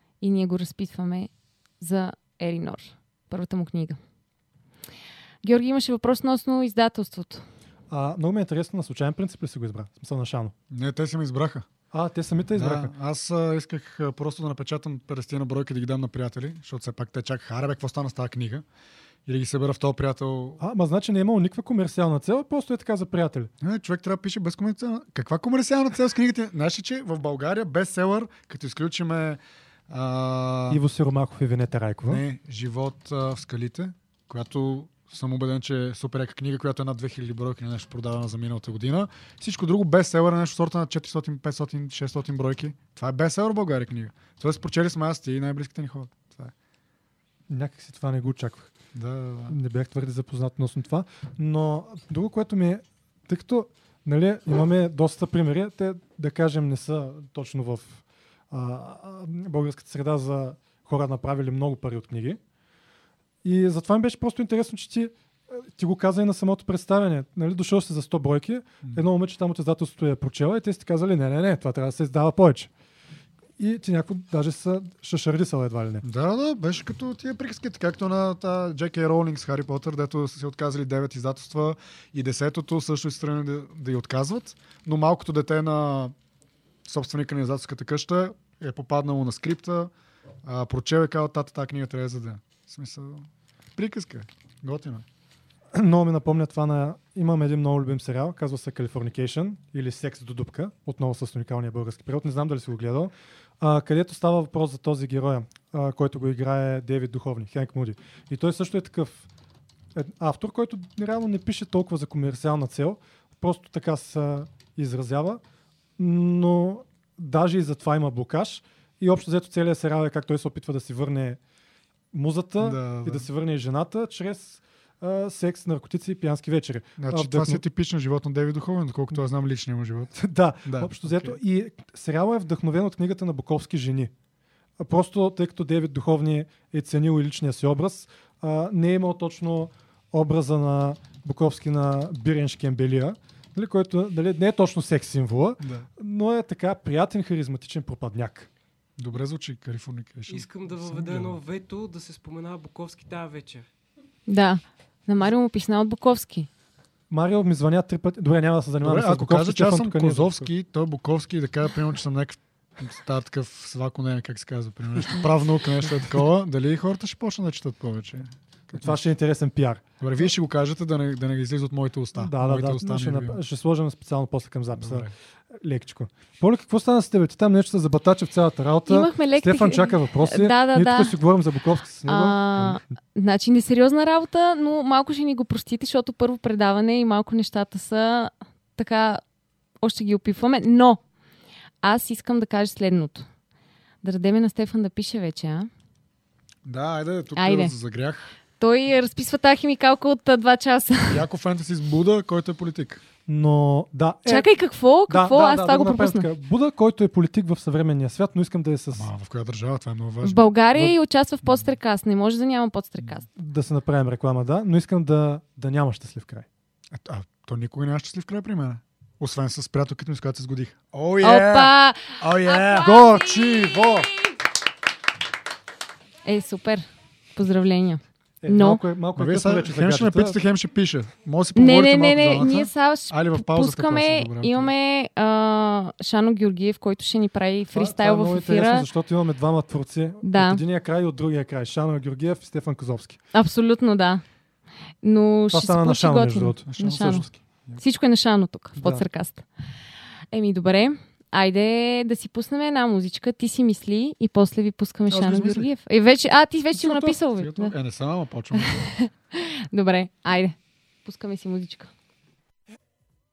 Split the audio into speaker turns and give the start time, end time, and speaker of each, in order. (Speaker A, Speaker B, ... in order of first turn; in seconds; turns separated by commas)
Speaker A: 0.2-4.0, Speaker A: 5.4-7.4, Speaker B: 7.9-10.5, Speaker C: 10.7-11.7, Speaker B: 11.9-12.9, Speaker C: 12.6-18.6, Speaker C: 19.2-20.6, Speaker B: 20.6-23.5, Speaker C: 23.6-30.8, Speaker B: 30.7-32.2, Speaker C: 32.1-46.5, Speaker B: 47.5-48.7, Speaker C: 48.9-49.5, Speaker B: 49.5-62.4, Speaker B: 63.4-72.7, Speaker B: 73.6-76.0, Speaker C: 76.0-86.1, Speaker C: 86.8-89.9, Speaker C: 90.4-95.0, Speaker B: 95.7-109.3, Speaker B: 109.9-115.4, Speaker B: 116.0-121.4, Speaker B: 122.1-127.6, Speaker C: 122.6-123.2, Speaker C: 127.0-131.3, Speaker B: 130.1-134.1, Speaker B: 134.8-148.5, Speaker C: 145.6-145.9, Speaker C: 149.0-151.4, Speaker D: 150.3-153.7, Speaker A: 154.3-156.5, Speaker B: 157.1-160.5, Speaker C: 158.8-169.0, Speaker B: 165.0-165.2, Speaker B: 168.8-169.8, Speaker C: 170.0-173.4, Speaker B: 172.1-182.8, Speaker C: 174.8-175.1, Speaker A: 178.9-181.1, Speaker A: 182.1-189.2, Speaker A: 189.8-191.0, Speaker A: 191.8-193.3, Speaker A: 194.0-195.7, Speaker C: 196.6-198.3, Speaker A: 197.3-197.7, Speaker A: 198.6-201.2, Speaker C: 201.1-203.0, Speaker B: 203.2-204.5, Speaker A: 204.2-206.3, Speaker B: 205.1-209.1, Speaker C: 208.9-210.4, Speaker A: 210.2-213.3, Speaker B: 213.3-216.5, Speaker C: 216.9-223.8, Speaker A: 221.2-224.0, Speaker B: 222.8-224.1, Speaker A: 226.2-228.8, Speaker B: 228.4-230.4, Speaker C: 229.2-234.7, Speaker A: 231.5-238.8, Speaker B: 237.7-243.2, Speaker A: 240.2-240.6, Speaker A: 243.3-244.2, Speaker A: 245.0-249.4, Speaker B: 245.5-247.2, Speaker C: 246.7-247.8, Speaker B: 248.8-249.0, Speaker A: 250.3-257.7, Speaker C: 255.1-255.7, Speaker C: 256.8-258.9, Speaker A: 258.8-261.9